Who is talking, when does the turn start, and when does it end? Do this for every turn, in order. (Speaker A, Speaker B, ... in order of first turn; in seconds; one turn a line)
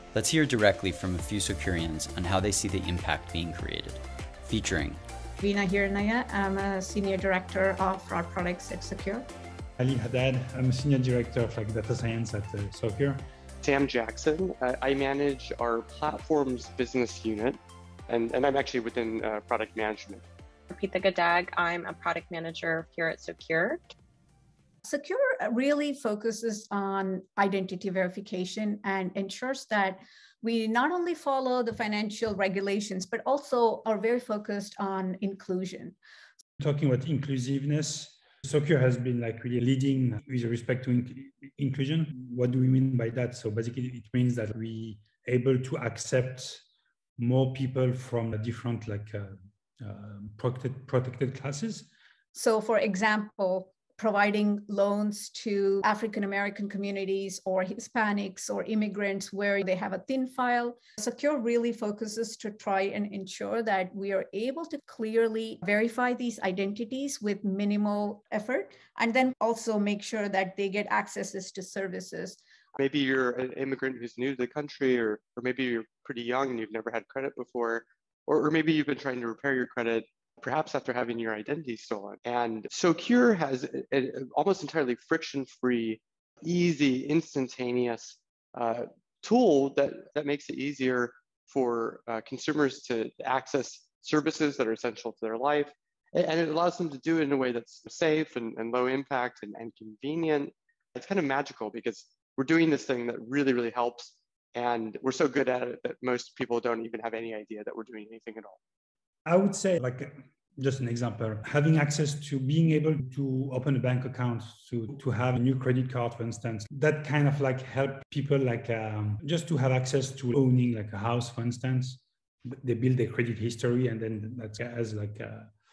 Speaker A: 0.1-5.0
Speaker B: 5.4-9.3
Speaker C: 9.8-13.2
Speaker D: 13.6-20.2
Speaker E: 20.7-23.8
Speaker B: 24.9-36.0
Speaker C: 36.6-46.6
Speaker C: 47.2-51.9
Speaker B: 52.3-72.4
Speaker D: 72.8-108.6
Speaker C: 109.3-125.5